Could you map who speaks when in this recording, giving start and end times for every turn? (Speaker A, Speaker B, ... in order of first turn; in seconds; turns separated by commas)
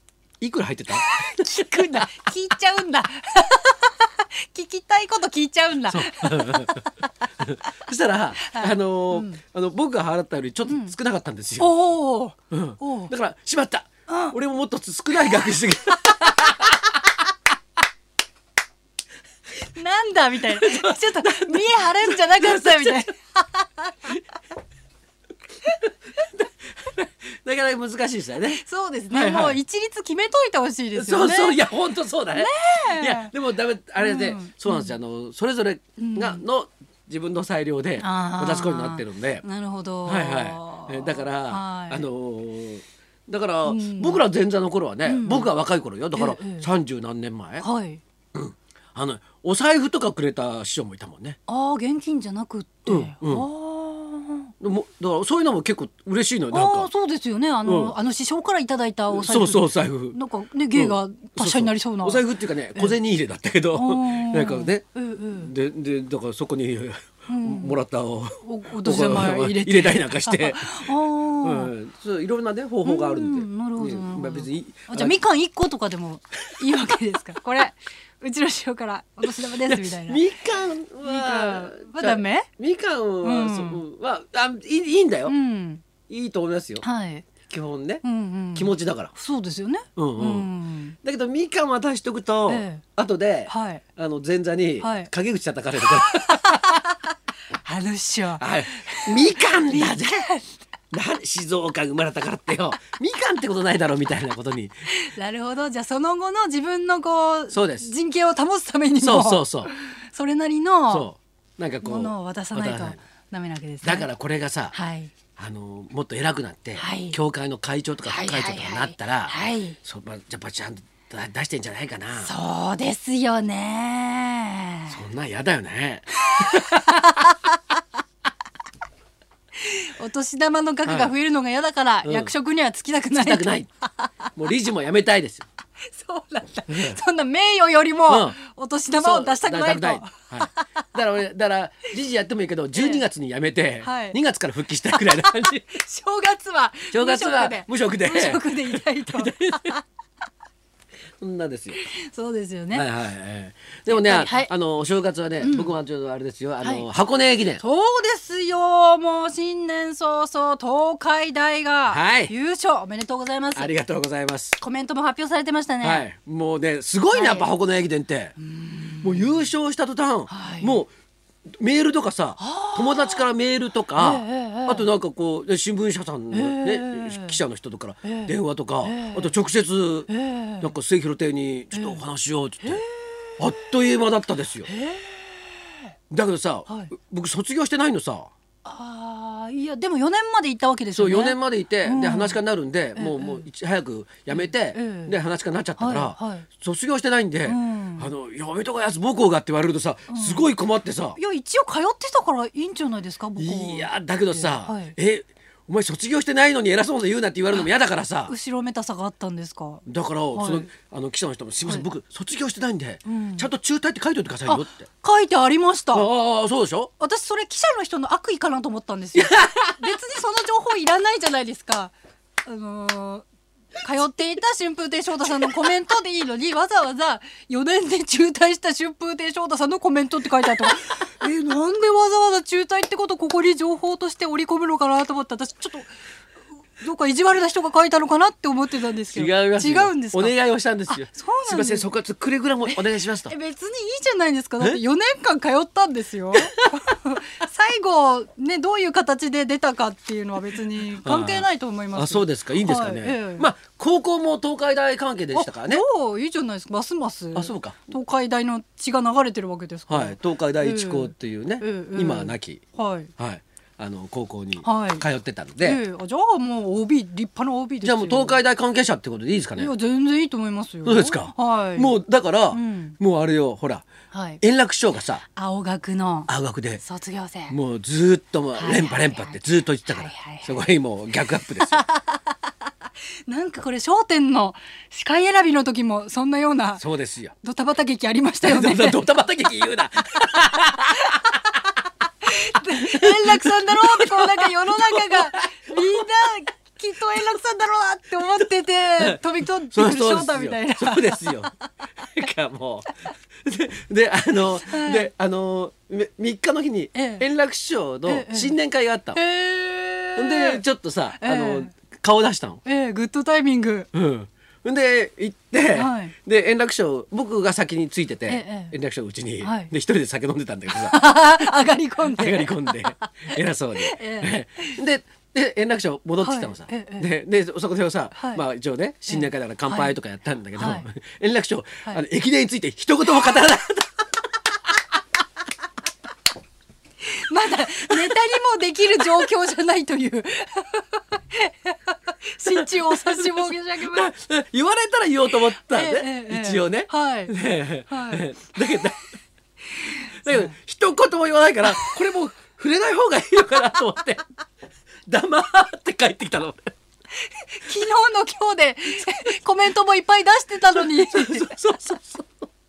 Speaker A: 0.4-2.0, Speaker B: 0.9-7.0, Speaker A: 5.9-6.8, Speaker A: 7.4-11.7, Speaker B: 8.4-9.4, Speaker B: 10.7-10.9, Speaker B: 11.6-13.1, Speaker A: 12.5-16.8, Speaker B: 14.1-14.4, Speaker B: 19.6-24.1, Speaker A: 20.5-23.1, Speaker A: 26.2-29.6, Speaker B: 28.5-31.7, Speaker A: 30.9-39.5, Speaker B: 32.3-33.3, Speaker B: 34.0-35.0, Speaker B: 36.0-36.5, Speaker B: 38.0-42.0, Speaker A: 40.1-47.7, Speaker B: 43.6-44.2, Speaker B: 45.0-45.5, Speaker B: 46.1-46.7, Speaker B: 47.6-48.0, Speaker A: 48.3-51.4, Speaker B: 51.5-54.5, Speaker A: 52.9-53.5, Speaker A: 54.6-56.9, Speaker B: 56.5-63.0, Speaker A: 57.6-57.9, Speaker A: 59.1-60.2, Speaker A: 60.7-75.2, Speaker B: 63.7-65.5, Speaker B: 67.3-67.8, Speaker B: 68.4-71.7, Speaker B: 72.8-80.3, Speaker A: 79.7-85.3, Speaker B: 81.0-82.5, Speaker B: 83.2-83.8, Speaker B: 85.3-85.8, Speaker A: 86.1-86.8, Speaker B: 86.8-87.3, Speaker A: 87.4-88.0, Speaker B: 88.0-91.0, Speaker A: 88.5-89.1, Speaker A: 90.0-90.5, Speaker A: 91.0-96.5, Speaker B: 92.5-92.8, Speaker B: 93.5-93.8, Speaker B: 94.8-95.1, Speaker B: 95.9-97.1, Speaker B: 97.6-100.5, Speaker A: 98.4-100.3, Speaker A: 100.9-104.8, Speaker B: 104.9-111.1, Speaker A: 107.5-107.9, Speaker A: 109.0-109.7, Speaker A: 110.9-113.0, Speaker B: 111.8-114.1, Speaker A: 113.8-114.8, Speaker B: 114.7-115.1, Speaker A: 115.3-122.3, Speaker B: 116.8-117.2, Speaker B: 118.0-119.8, Speaker B: 122.2-125.0, Speaker A: 124.9-126.7, Speaker B: 126.3-127.6, Speaker B: 129.6-134.1, Speaker A: 130.9-131.1, Speaker A: 132.0-132.3, Speaker A: 133.1-133.7, Speaker A: 134.3-135.5, Speaker B: 135.9-140.9, Speaker A: 136.7-137.0, Speaker A: 138.1-138.4, Speaker A: 139.0-145.7, Speaker B: 142.7-143.0, Speaker B: 143.8-144.2, Speaker B: 144.9-149.8, Speaker A: 146.9-149.8, Speaker A: 151.2-151.8, Speaker B: 151.7-152.9, Speaker A: 152.7-157.6, Speaker B: 153.9-154.5, Speaker B: 155.4-155.8, Speaker B: 156.6-156.9, Speaker B: 157.6-163.7, Speaker A: 161.9-162.3, Speaker A: 163.6-164.6, Speaker B: 164.6-166.1, Speaker A: 165.8-168.3, Speaker B: 167.1-167.5, Speaker B: 168.4-169.4, Speaker A: 169.0-170.9, Speaker B: 170.3-170.8, Speaker A: 171.6-180.1, Speaker B: 172.4-173.3, Speaker B: 174.0-174.9, Speaker B: 176.3-177.4, Speaker B: 178.0-178.3, Speaker B: 178.8-179.3, Speaker B: 180.1-180.7, Speaker A: 180.6-182.8, Speaker B: 181.7-182.0, Speaker B: 182.6-183.3, Speaker A: 183.4-184.7, Speaker B: 184.7-185.4, Speaker A: 186.1-188.3, Speaker B: 188.7-192.4, Speaker A: 190.9-201.2, Speaker B: 192.9-193.4, Speaker B: 194.3-195.2, Speaker B: 195.8-196.5, Speaker B: 197.5-198.1, Speaker B: 200.1-200.5, Speaker B: 201.2-204.9, Speaker A: 203.4-208.3, Speaker B: 208.3-210.7, Speaker A: 209.9-214.9, Speaker B: 213.1-213.5, Speaker B: 214.5-216.1, Speaker A: 215.9-216.9, Speaker B: 217.0-223.2, Speaker A: 219.2-219.8, Speaker B: 223.8-235.9, Speaker B: 236.8-240.4, Speaker A: 239.1-243.3, Speaker B: 240.9-241.9, Speaker B: 242.7-253.5, Speaker A: 251.0-255.8, Speaker B: 255.3-263.1, Speaker A: 257.4-257.9, Speaker A: 259.9-262.6, Speaker A: 263.2-265.8, Speaker B: 264.6-265.1, Speaker B: 265.6-268.4, Speaker A: 267.8-269.7, Speaker B: 269.6-271.9, Speaker A: 270.9-273.9, Speaker B: 272.5-273.0, Speaker B: 274.1-274.4, Speaker A: 274.4-275.2, Speaker B: 275.4-277.6, Speaker A: 276.3-276.8, Speaker A: 277.5-281.8, Speaker B: 278.6-280.7, Speaker B: 281.6-282.5, Speaker B: 283.3-286.8, Speaker A: 286.8-287.3, Speaker B: 287.4-289.0, Speaker A: 288.4-291.1, Speaker B: 290.3-291.4, Speaker B: 292.2-301.6, Speaker A: 292.7-296.0, Speaker A: 299.0-302.9, Speaker A: 303.4-309.2, Speaker B: 304.6-305.1, Speaker B: 306.9-307.3, Speaker B: 308.1-308.6, Speaker B: 309.1-310.6, Speaker A: 310.2-312.6, Speaker B: 311.2-311.7, Speaker B: 312.6-313.9, Speaker A: 313.9-321.0, Speaker B: 315.7-316.1, Speaker B: 318.3-318.8, Speaker B: 319.4-319.7, Speaker B: 320.7-324.8, Speaker A: 322.1-334.0, Speaker B: 326.2-327.1, Speaker B: 328.2-328.4, Speaker B: 329.1-329.9, Speaker B: 330.6-330.9, Speaker B: 337.0-344.1, Speaker A: 342.5-349.0, Speaker B: 345.4-347.4, Speaker B: 347.9-348.8, Speaker B: 349.8-350.5, Speaker A: 350.2-354.3, Speaker B: 351.7-352.0, Speaker A: 355.1-356.7, Speaker B: 357.2-361.6, Speaker A: 360.8-362.5